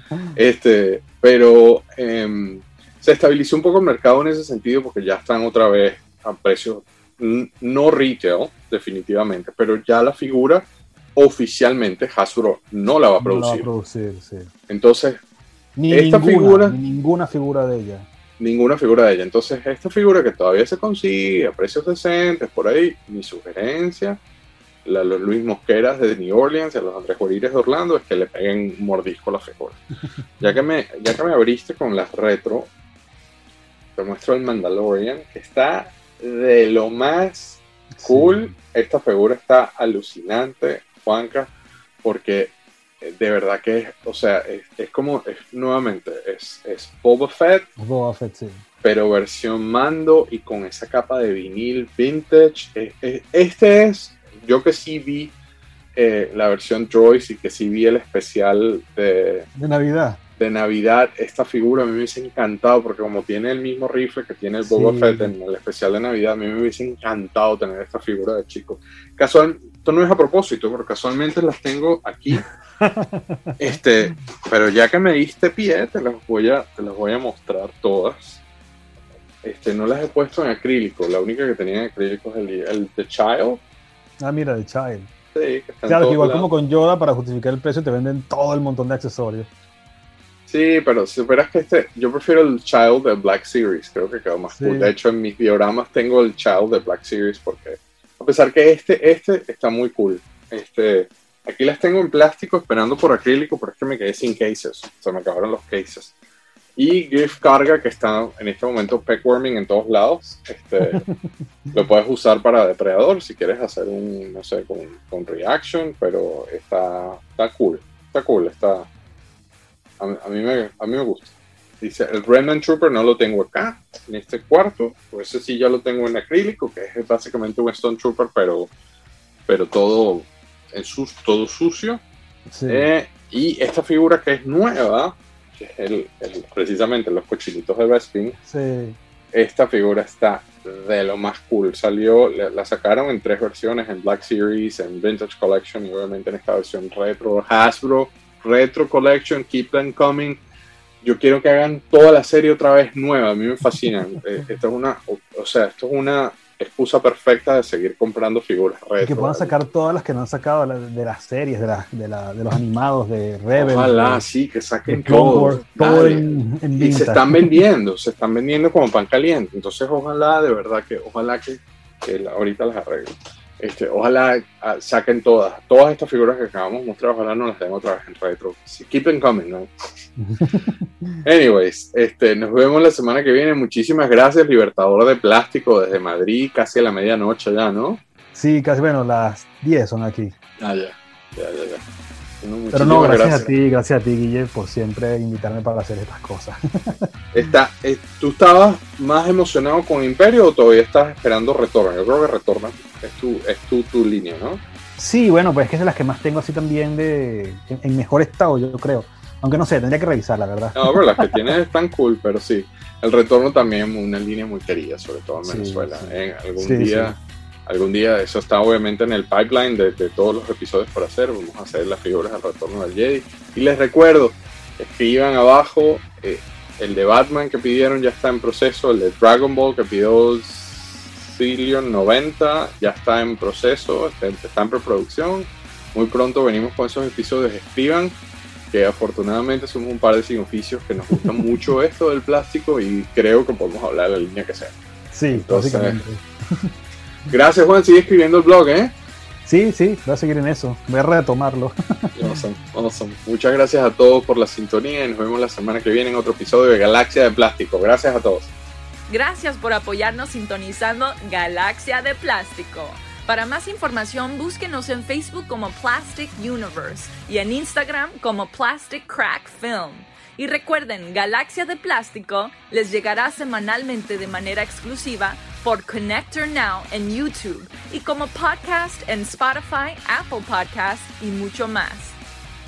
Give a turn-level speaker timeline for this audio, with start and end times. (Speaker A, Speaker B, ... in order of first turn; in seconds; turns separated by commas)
Speaker A: 0.3-13.7, Speaker B: 13.2-14.5, Speaker A: 14.7-15.2, Speaker B: 15.8-18.1, Speaker A: 15.9-16.8, Speaker A: 18.4-24.2, Speaker A: 24.8-29.8, Speaker A: 30.4-32.7, Speaker A: 34.0-41.5, Speaker B: 38.0-38.5, Speaker A: 42.0-47.7, Speaker B: 47.8-48.6, Speaker A: 48.8-55.3, Speaker A: 55.9-59.5, Speaker B: 59.5-60.2, Speaker A: 60.4-72.5, Speaker B: 64.6-65.3, Speaker B: 72.8-73.8, Speaker A: 73.6-78.4, Speaker A: 79.4-83.6, Speaker B: 84.2-85.1, Speaker A: 85.3-86.5, Speaker B: 85.9-89.5, Speaker A: 90.5-106.1, Speaker B: 94.6-94.9, Speaker A: 106.8-111.0, Speaker B: 110.8-111.3, Speaker A: 111.7-118.9, Speaker A: 120.0-128.7, Speaker A: 129.5-132.0, Speaker B: 132.5-132.9, Speaker A: 132.7-138.3, Speaker B: 138.4-139.0, Speaker A: 139.3-150.4, Speaker A: 151.0-159.6, Speaker B: 159.0-164.2, Speaker A: 163.6-179.7, Speaker B: 164.9-167.6, Speaker B: 180.2-181.2, Speaker A: 181.2-188.0, Speaker B: 188.3-190.3, Speaker A: 190.6-191.8, Speaker A: 192.4-193.5, Speaker B: 192.7-197.1, Speaker A: 197.3-204.6, Speaker B: 205.0-211.4, Speaker A: 210.7-238.2, Speaker B: 215.4-217.1, Speaker A: 238.7-244.7, Speaker B: 241.1-241.4, Speaker B: 245.1-246.7, Speaker A: 245.3-246.0, Speaker A: 247.3-248.9, Speaker B: 249.4-252.2, Speaker A: 252.2-258.5, Speaker C: 259.1-282.2